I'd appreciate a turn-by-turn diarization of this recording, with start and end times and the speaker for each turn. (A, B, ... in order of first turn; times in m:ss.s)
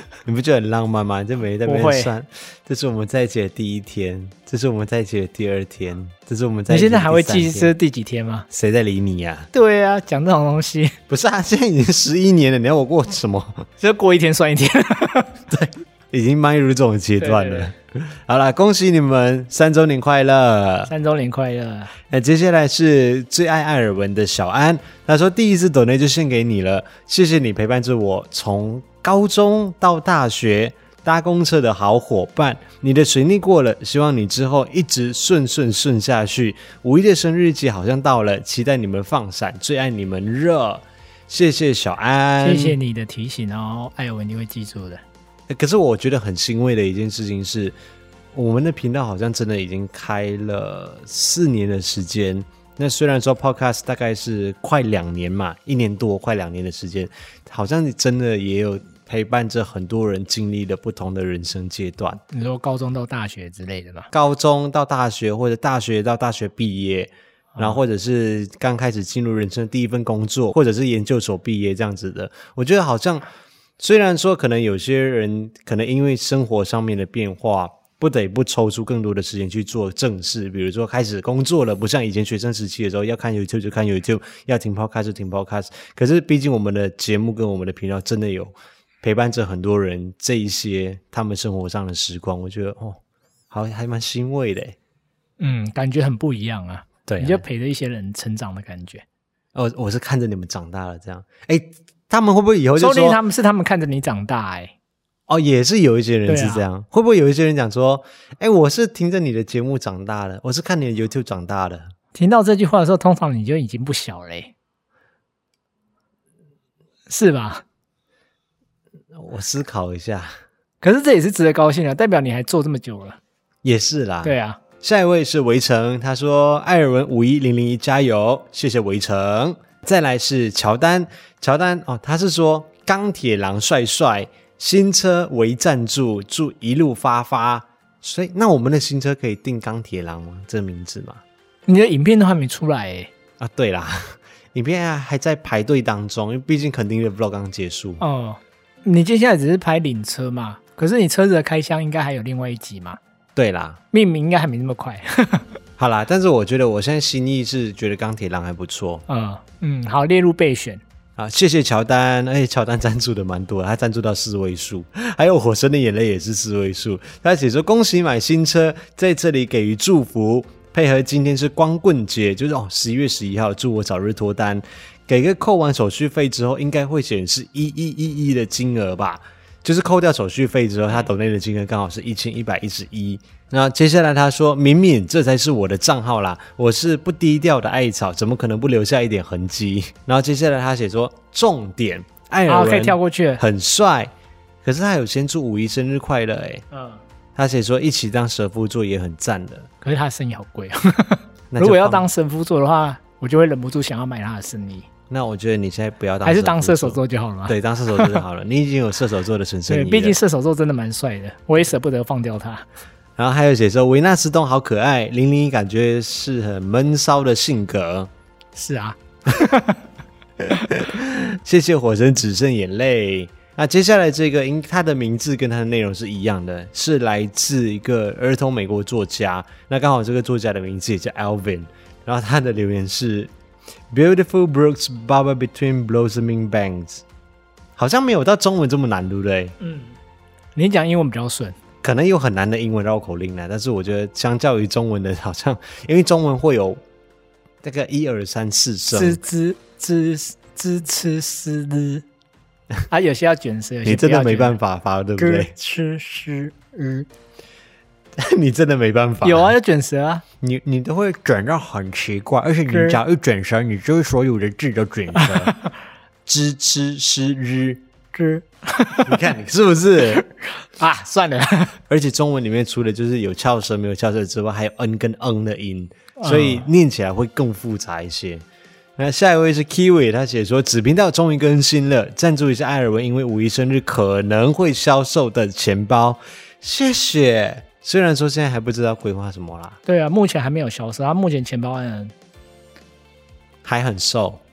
0:00.2-0:07.7 A
0:01.6-0:02.1 B
0:06.7-0:08.5 B
0:08.5-0:09.5 A
0:09.5-0:11.0 B
0:11.1-0:13.7 A
0:13.8-0:15.4 B
0:15.5-0:20.9 A
0:17.2-0:17.7 B
0:20.9-0:21.9 B
0:22.1-0:42.8 A
0:42.4-0:45.0 B
0:45.5-0:47.7 A
0:48.3-1:02.2 A
1:02.3-1:04.1 B
1:04.1-1:13.2 A
1:13.8-1:33.0 A
1:33.5-1:34.8 A
1:35.4-1:39.0 B
1:37.1-1:37.4 A
1:39.5-1:43.2 A
1:42.8-1:44.7 B
1:45.3-1:51.9 A
1:46.3-1:46.6 B
1:52.1-1:54.5 B
1:57.1-1:57.6 B
1:59.1-2:00.4 A
2:00.8-2:03.2 B
2:03.6-2:21.2 A
2:04.2-2:04.6 B
2:21.7-2:23.1 B
2:23.4-2:28.0 A
2:28.0-2:33.0 B
2:33.4-2:33.8 A
2:33.9-2:35.5 B
2:35.8-2:39.0 A
2:39.1-2:40.8 B
2:41.2-3:14.1 A
3:12.5-3:13.4 B
3:14.6-3:16.6 A
3:16.7-3:17.0 B
3:17.4-3:19.7 A
3:19.8-3:24.9 B
3:21.5-3:22.1 A
3:25.1-3:30.2 A
3:26.2-3:28.2 B
3:29.7-3:32.6 B
3:33.2-3:38.1 A
3:38.5-3:39.8 B
3:40.4-3:53.3 A
3:53.9-3:57.0 A
3:57.8-3:59.6 A
3:59.6-4:00.0 B
4:00.5-4:01.6 B
4:01.8-4:06.8 A
4:07.6-4:09.2 A
4:08.9-4:12.0 B
4:12.9-4:14.6 B
4:13.8-4:15.5 A
4:15.2-4:17.1 B
4:18.2-4:19.5 A
4:19.2-4:20.2 B
4:20.4-4:25.6 A
4:22.7-4:23.0 B
4:25.2-4:25.6 B
4:26.2-4:27.8 A
4:28.1-4:29.2 B
4:29.0-4:30.2 A
4:30.1-4:31.8 B
4:31.9-4:38.4 A
4:36.2-4:36.7 B
4:39.0-4:49.8 A
4:49.8-4:52.1 B
4:53.6-4:54.4 A